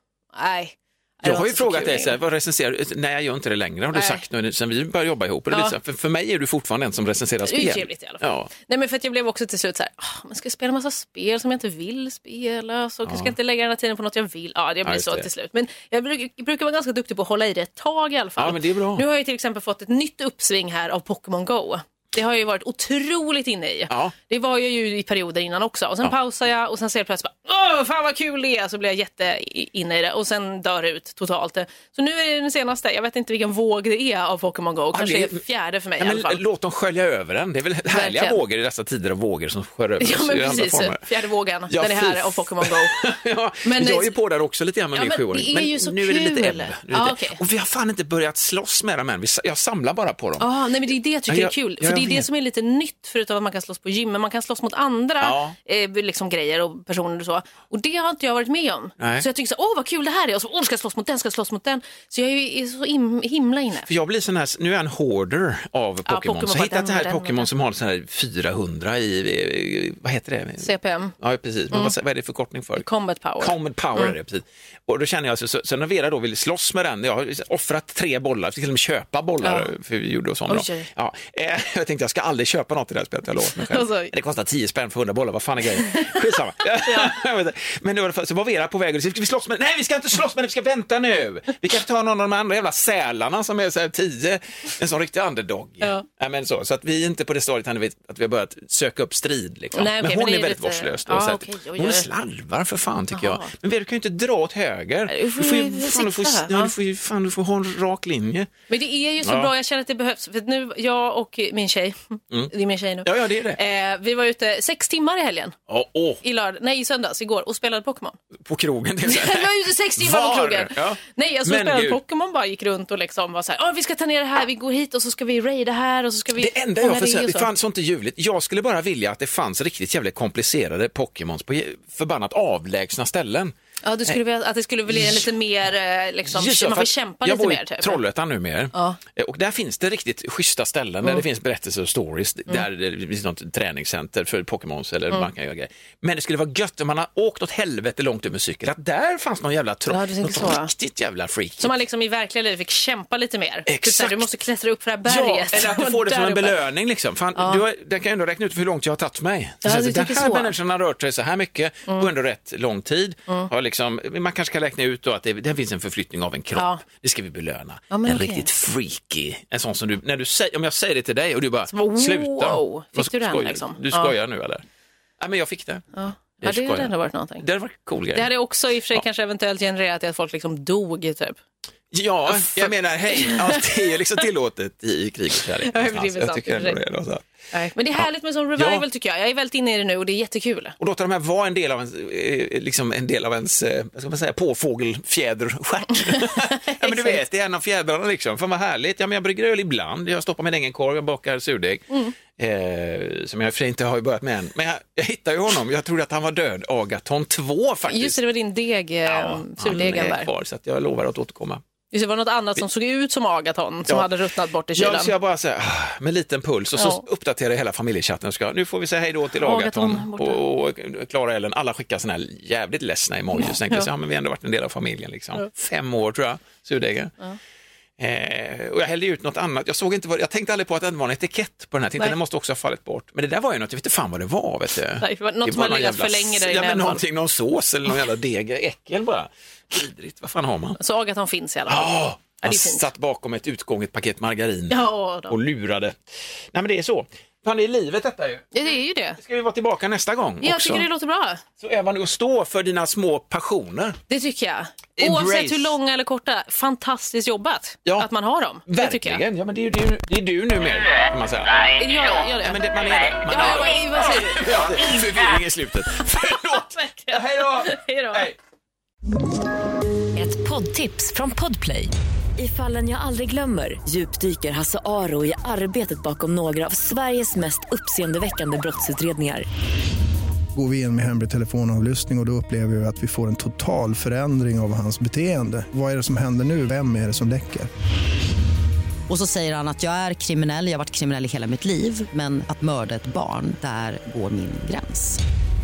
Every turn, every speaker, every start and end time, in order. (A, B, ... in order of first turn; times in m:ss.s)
0:00.3-0:02.2 A
0:01.2-0:08.5 B
0:03.9-0:04.2 A
0:05.5-0:05.7 A
0:07.4-0:36.4 A
0:13.0-0:13.3 B
0:14.8-0:15.3 B
0:18.4-0:19.0 B
0:34.9-0:35.4 B
0:36.0-0:41.0 B
0:37.9-0:38.4 A
0:40.0-0:43.0 A
0:41.7-0:50.5 B
0:43.6-0:44.1 A
0:44.9-0:47.4 A
0:50.4-1:03.9 A
0:51.3-0:52.2 B
0:55.2-0:55.5 B
0:59.0-0:59.3 B
1:03.8-1:10.7 B
1:06.1-1:07.5 A
1:10.6-1:11.1 A
1:11.2-1:12.8 B
1:12.8-1:14.1 A
1:13.4-1:48.5 B
1:19.4-1:19.7 A
1:20.5-1:20.9 A
1:23.6-1:24.1 A
1:25.9-1:26.3 A
1:26.8-1:27.1 A
1:39.7-1:42.1 A
1:43.1-1:43.5 A
1:45.1-1:46.7 A
1:48.7-1:52.0 A
1:49.2-1:49.5 B
1:52.5-1:55.5 A
1:53.0-1:53.6 B
1:55.7-1:56.2 B
1:56.2-1:58.2 A
1:58.4-2:02.0 B
1:59.0-2:07.5 A
2:06.4-2:13.5 B
2:13.8-2:18.0 A
2:14.9-2:15.3 B
2:16.3-2:31.7 B
2:18.7-2:19.0 A
2:29.9-2:30.7 A
2:31.6-2:36.6 A
2:33.6-2:34.3 B
2:35.0-2:54.6 B
2:37.4-2:37.6 A
2:39.6-2:40.5 A
2:46.6-2:46.8 A
2:47.9-2:48.5 A
2:51.7-2:54.1 A
2:55.2-2:55.8 B
2:55.9-2:57.4 A
2:56.4-2:58.3 B
2:58.1-3:01.4 A
3:01.9-3:07.2 B
3:02.3-3:03.8 A
3:05.6-3:06.8 A
3:07.5-3:10.8 A
3:08.6-3:08.8 B
3:10.8-3:28.2 B
3:16.2-3:17.2 A
3:27.9-3:30.3 A
3:29.1-3:31.6 B
3:31.9-3:35.1 A
3:34.7-3:47.1 B
3:36.8-3:37.0 A
3:39.4-3:40.4 A
3:43.4-3:43.9 A
3:48.0-4:00.8 B
3:55.0-3:57.0 A
4:00.8-4:02.9 A
4:01.7-4:05.9 B
4:04.7-4:05.4 A
4:06.5-4:08.5 B
4:08.5-4:09.2 A
4:09.2-4:10.9 B
4:10.4-4:11.4 A
4:11.6-4:14.0 B
4:14.1-4:19.2 A
4:15.0-4:15.7 B
4:18.6-4:21.7 B
4:21.8-4:22.6 A
4:22.4-4:28.4 B
4:23.3-4:24.4 A
4:26.1-4:28.3 A
4:30.2-4:39.4 C
4:40.5-4:47.7 D
4:49.1-4:55.2 E